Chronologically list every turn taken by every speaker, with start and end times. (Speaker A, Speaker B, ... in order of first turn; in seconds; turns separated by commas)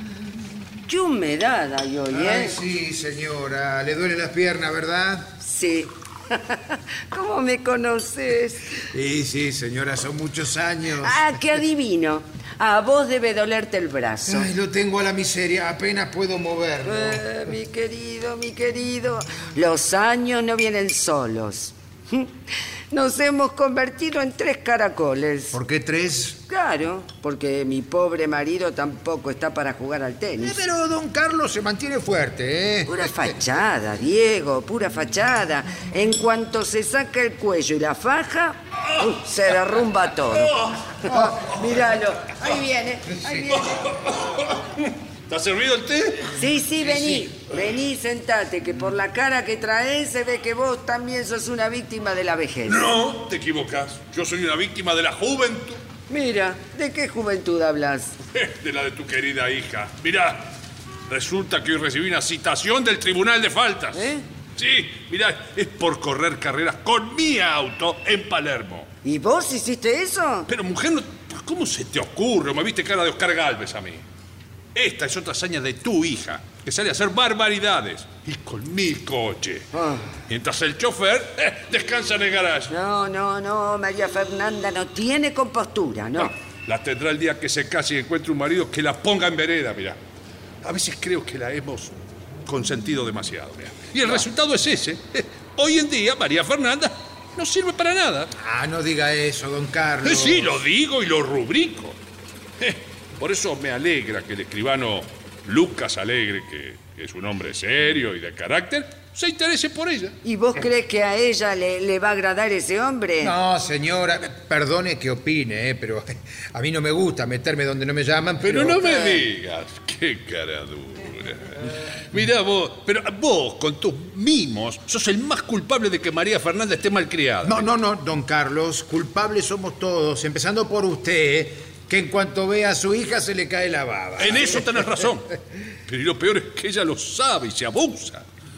Speaker A: 0.9-2.6, Speaker B: 2.1-5.3, Speaker A: 5.4-8.8, Speaker B: 8.9-11.4, Speaker A: 11.0-14.5, Speaker B: 14.3-17.2, Speaker A: 16.9-22.4, Speaker A: 22.9-25.6, Speaker B: 25.5-26.4, Speaker A: 26.4-30.6, Speaker B: 30.4-33.4, Speaker A: 32.9-43.8, Speaker C: 40.3-40.7, Speaker B: 41.1-41.5, Speaker C: 43.5-47.3, Speaker A: 46.3-52.9, Speaker C: 52.6-55.8, Speaker A: 56.1-58.2, Speaker C: 58.3-60.5, Speaker C: 61.1-68.9, Speaker A: 63.9-64.2, Speaker A: 69.0-70.5, Speaker C: 70.5-74.0, Speaker C: 74.8-79.7, Speaker A: 79.7-80.1, Speaker C: 80.3-82.7, Speaker A: 82.7-86.3, Speaker C: 86.2-90.0, Speaker C: 90.6-91.9, Speaker C: 92.5-98.3, Speaker B: 98.4-100.6, Speaker C: 100.0-102.0, Speaker C: 102.6-110.2, Speaker A: 110.2-113.3, Speaker B: 113.2-119.2, Speaker C: 118.4-127.7, Speaker B: 127.5-135.0, Speaker C: 134.2-135.3, Speaker C: 135.9-138.2